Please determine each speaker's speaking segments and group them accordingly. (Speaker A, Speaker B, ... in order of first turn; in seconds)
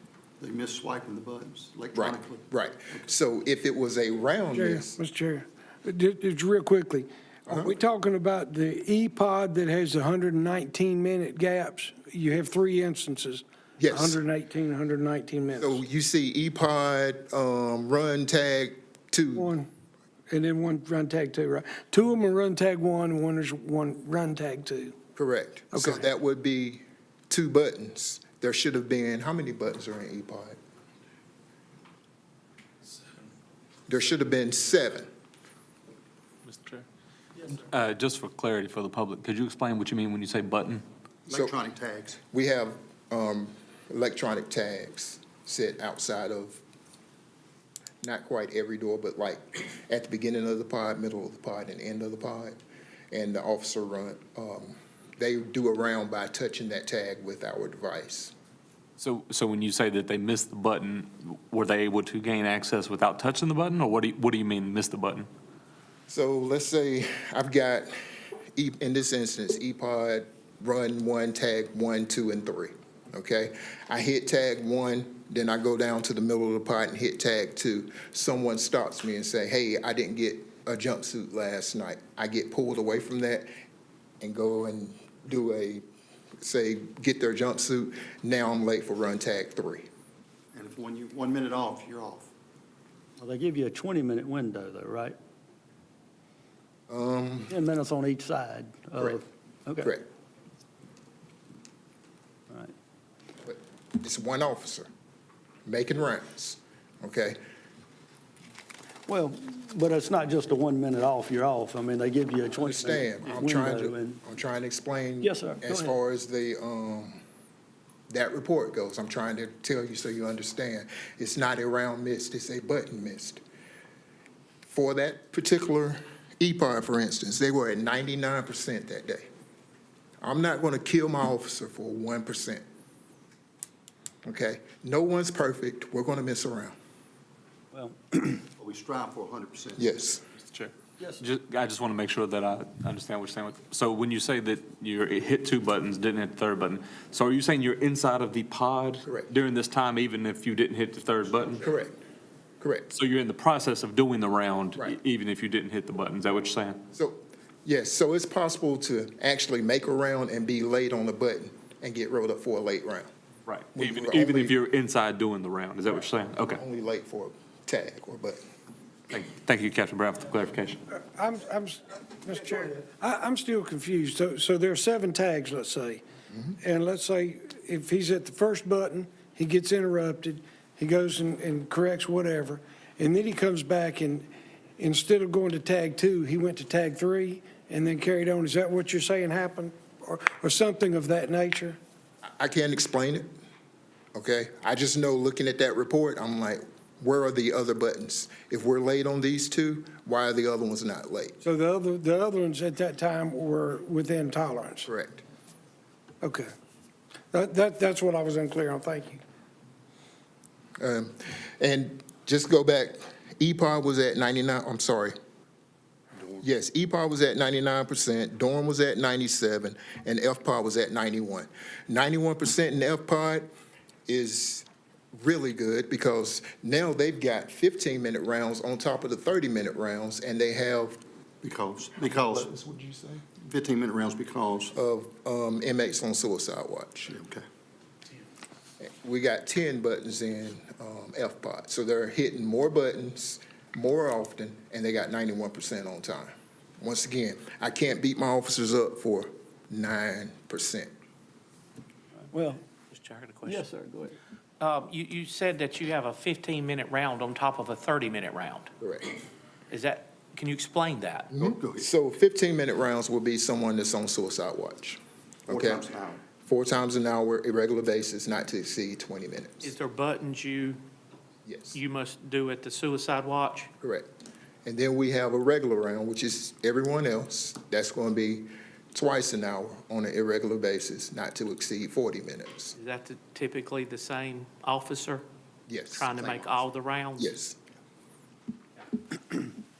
Speaker A: 0.4-3.0, 41.3-42.2, 90.5-92.3, 138.6-139.9, 216.1-216.4, 231.4-232.5, 233.3-234.7, 237.1-237.4, 261.4-261.9, 265.5-266.2
Speaker B: 1.9-5.0, 7.5-7.8, 13.8-14.2, 15.6-19.5, 25.1-30.6, 33.9-35.1, 41.3-41.5, 42.3-46.6, 48.0-52.6, 53.1-58.3, 66.1-67.9, 68.5-83.5, 84.2-85.8, 86.4-89.8, 96.9-97.5, 103.4-104.9, 105.7-107.4, 112.6-117.2, 118.1-123.4, 124.7-129.3, 130.2-132.6, 134.2-136.7, 139.8-140.2, 151.6-151.9, 152.6-152.9, 156.9-163.1, 163.7-164.6, 166.5-168.4, 192.4-193.3, 194.1-201.4, 204.8-205.2, 210.8-215.1, 216.4-223.5, 224.1-231.0, 232.0-233.2, 234.7-237.2, 238.8-250.9, 258.8-259.1, 261.3-265.8, 266.4-269.7, 271.4-271.8, 273.8-274.1, 274.6-282.8, 285.7-286.6, 287.2-287.6
Speaker C: 4.5-15.8, 19.3-19.7, 20.3-25.0, 25.7-26.1, 170.9-176.0, 176.6-191.8, 201.4-204.9, 206.2-206.5, 207.3-209.2
Speaker D: 36.5-36.8, 37.4-40.8, 59.0-65.3, 140.4-151.6, 152.9-156.8, 163.4-166.6, 169.1-170.8
Speaker E: 93.2-95.2, 97.5-99.9, 109.1-114.2, 115.2-116.0, 137.7-138.3, 252.3-252.6, 253.4-254.2
Speaker F: 252.9-253.6, 254.6-258.7, 259.7-261.3, 269.6-270.8, 271.7-273.7, 282.7-285.2, 285.9-287.3